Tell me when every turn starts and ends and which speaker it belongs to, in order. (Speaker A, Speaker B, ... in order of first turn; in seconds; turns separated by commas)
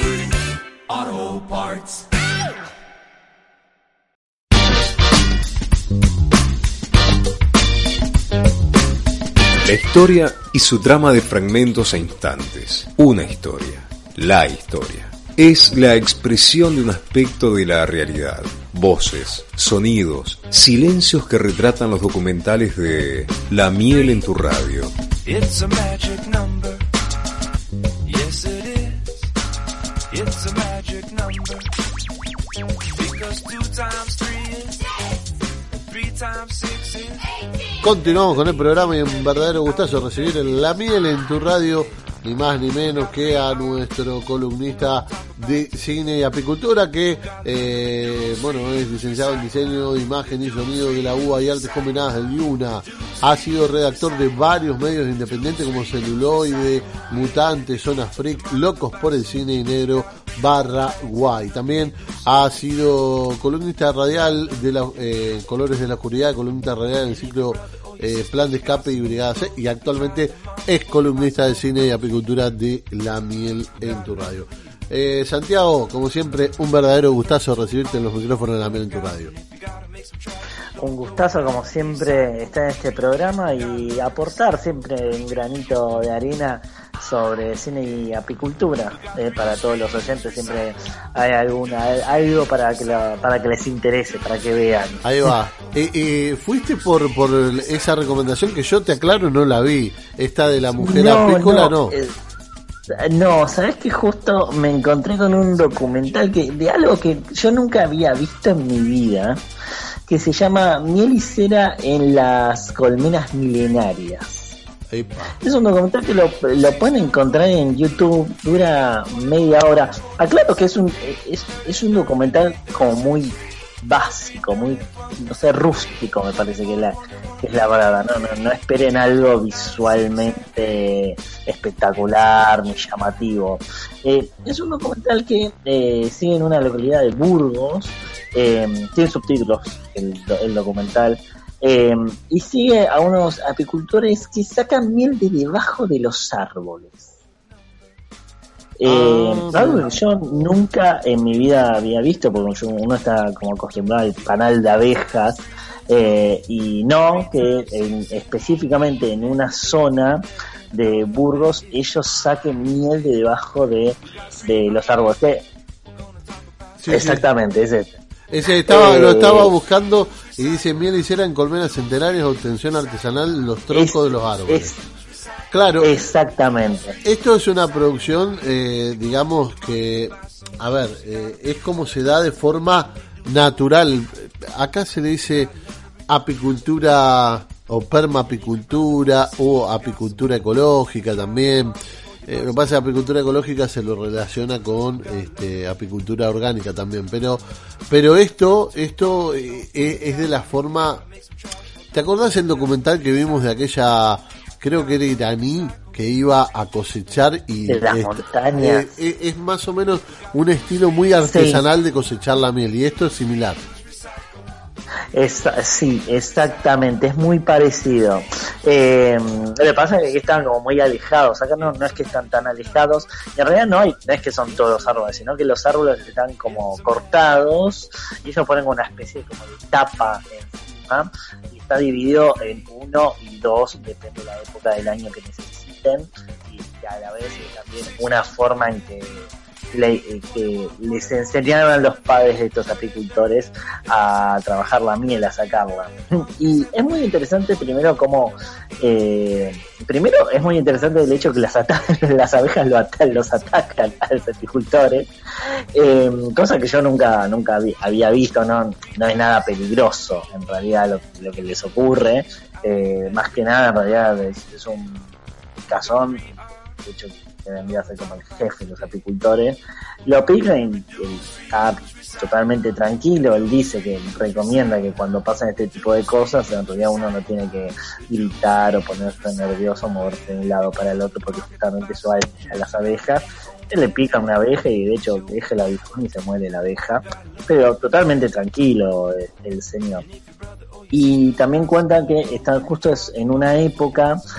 Speaker A: 0.9-2.0, Speaker B: 9.6-24.9, Speaker A: 25.3-26.9, Speaker A: 28.1-29.3, Speaker A: 30.1-31.7, Speaker A: 33.0-34.9, Speaker A: 35.8-37.3, Speaker C: 37.8-79.3, Speaker D: 80.8-95.0, Speaker C: 95.0-102.0, Speaker D: 100.8-102.1, Speaker D: 103.0-109.4, Speaker D: 110.1-114.5, Speaker C: 114.9-115.3, Speaker D: 115.4-147.1, Speaker D: 148.8-165.5, Speaker C: 148.8-149.9, Speaker C: 166.8-167.2, Speaker D: 166.9-167.9, Speaker C: 168.3-174.7, Speaker D: 168.6-169.5, Speaker D: 173.7-174.8, Speaker C: 175.5-175.9, Speaker D: 175.8-177.0, Speaker C: 177.1-185.5, Speaker C: 186.1-191.8, Speaker C: 192.3-201.1, Speaker C: 201.9-213.6, Speaker D: 207.7-208.9, Speaker D: 211.2-211.7, Speaker D: 215.1-255.1, Speaker D: 255.8-265.1, Speaker D: 265.7-266.2, Speaker D: 266.8-290.1, Speaker D: 290.9-294.2